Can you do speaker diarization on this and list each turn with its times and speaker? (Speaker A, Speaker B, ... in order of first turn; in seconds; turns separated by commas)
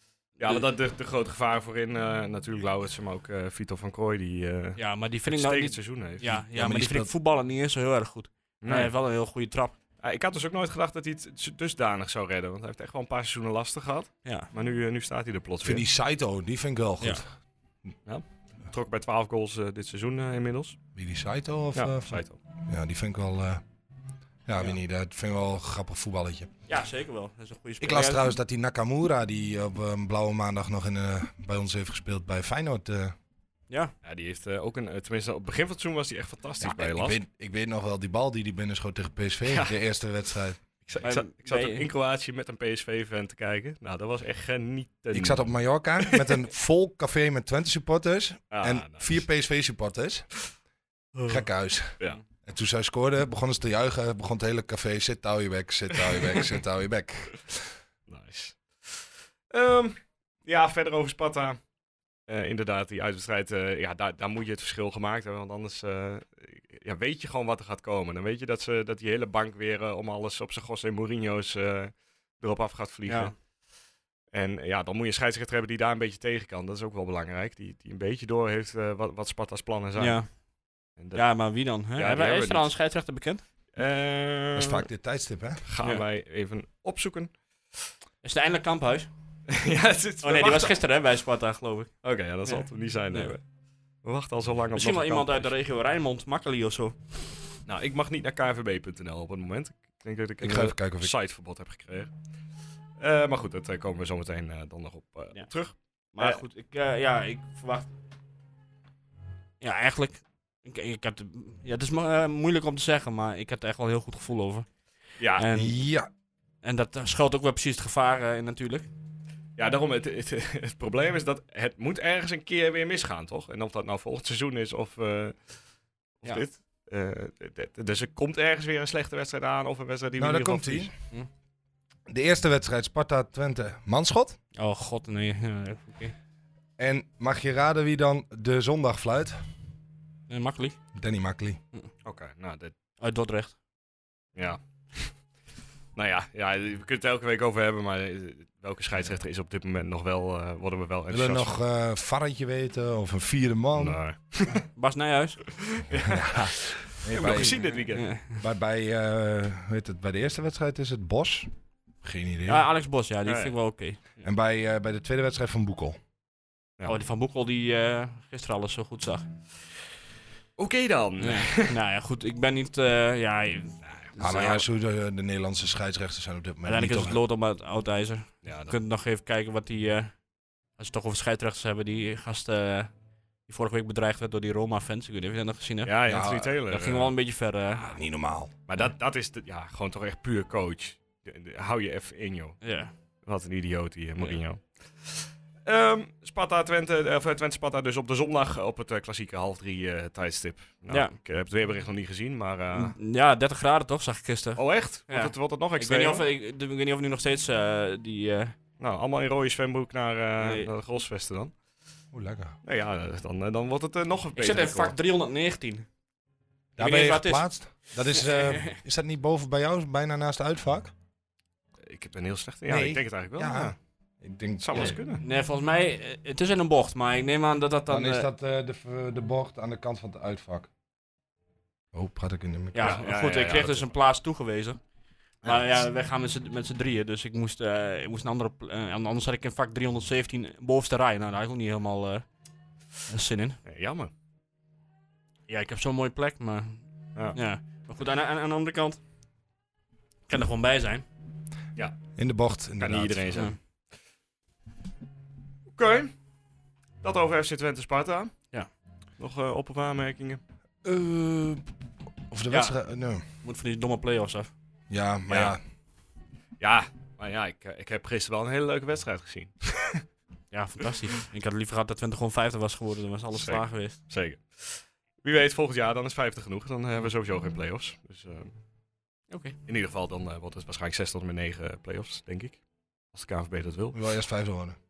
Speaker A: 0.4-6.2, Speaker B: 4.8-9.8, Speaker C: 6.2-7.1, Speaker A: 8.6-8.9, Speaker A: 10.0-15.8, Speaker B: 14.2-14.5, Speaker C: 15.6-17.3, Speaker A: 18.1-20.8, Speaker C: 20.9-23.6, Speaker A: 21.7-22.4, Speaker C: 24.4-26.5, Speaker B: 26.7-28.3, Speaker C: 27.8-33.1, Speaker A: 34.0-37.1, Speaker C: 36.6-40.6, Speaker A: 39.5-39.8, Speaker A: 40.8-46.4, Speaker B: 41.0-41.9, Speaker C: 45.1-50.3, Speaker A: 48.5-49.1, Speaker C: 51.3-57.7, Speaker A: 58.1-61.6, Speaker A: 62.3-73.4, Speaker B: 73.0-73.3, Speaker A: 74.3-80.2, Speaker B: 80.0-80.4, Speaker A: 81.0-81.2, Speaker B: 81.1-83.4, Speaker A: 82.0-82.7, Speaker A: 83.7-84.8, Speaker C: 84.5-85.6, Speaker A: 85.6-87.3, Speaker B: 88.2-89.1, Speaker A: 89.5-90.8, Speaker B: 90.2-91.9, Speaker A: 92.0-93.4, Speaker B: 92.5-93.3, Speaker A: 94.0-95.5, Speaker B: 94.7-97.2, Speaker A: 97.6-102.1, Speaker C: 100.4-101.1, Speaker A: 103.0-106.4, Speaker B: 106.1-107.9, Speaker B: 109.6-114.7, Speaker A: 115.2-115.4, Speaker B: 115.4-115.7, Speaker C: 115.5-116.1, Speaker B: 116.6-118.9, Speaker A: 119.6-125.4, Speaker A: 126.2-130.9, Speaker C: 130.2-130.9, Speaker C: 132.1-134.4, Speaker B: 134.5-136.1, Speaker C: 136.8-139.3, Speaker B: 140.3-140.8, Speaker C: 140.9-141.6, Speaker A: 142.0-142.7, Speaker B: 143.0-143.5, Speaker A: 144.3-145.1, Speaker A: 145.9-151.5, Speaker C: 151.1-154.0, Speaker A: 153.8-154.6, Speaker B: 154.5-155.6, Speaker A: 155.7-158.1, Speaker C: 156.1-157.7, Speaker B: 157.3-158.4, Speaker C: 158.3-161.5, Speaker C: 162.0-162.7, Speaker B: 162.5-164.2, Speaker A: 163.2-163.5, Speaker C: 164.2-166.0, Speaker B: 166.9-169.3, Speaker A: 170.6-171.7, Speaker B: 171.2-174.6, Speaker C: 174.2-177.2, Speaker B: 176.6-180.2, Speaker A: 178.4-178.8, Speaker B: 180.8-182.9, Speaker B: 183.5-186.1, Speaker A: 185.8-187.1, Speaker C: 186.1-186.5, Speaker B: 186.7-188.0, Speaker C: 187.8-188.5, Speaker A: 188.7-192.6, Speaker B: 192.6-192.9, Speaker A: 193.2-202.9, Speaker B: 200.9-201.1, Speaker B: 202.7-208.5, Speaker A: 204.6-206.2, Speaker A: 208.8-211.5, Speaker B: 210.4-210.7, Speaker C: 212.1-212.6, Speaker A: 212.6-214.9, Speaker B: 214.3-215.9, Speaker C: 216.8-220.9, Speaker B: 216.8-218.8, Speaker A: 221.8-223.7, Speaker C: 222.7-224.9, Speaker A: 224.6-225.2, Speaker B: 224.8-228.3, Speaker C: 227.9-230.7, Speaker C: 231.9-233.0, Speaker B: 232.7-234.8, Speaker A: 232.8-233.9, Speaker B: 235.4-242.2, Speaker C: 235.4-235.8, Speaker B: 243.1-243.6, Speaker A: 243.6-244.1, Speaker B: 245.5-249.0, Speaker B: 250.3-251.0, Speaker C: 252.2-253.5, Speaker A: 252.8-253.5, Speaker A: 255.8-256.1, Speaker A: 257.0-258.5, Speaker A: 259.2-260.4, Speaker C: 260.8-261.7, Speaker C: 262.3-263.2, Speaker B: 262.5-262.8, Speaker B: 263.4-264.5, Speaker C: 264.9-265.6, Speaker A: 265.3-265.6, Speaker A: 266.6-270.0, Speaker B: 270.5-274.0, Speaker A: 273.3-278.5, Speaker B: 279.3-279.6, Speaker A: 279.6-284.0, Speaker C: 283.9-284.8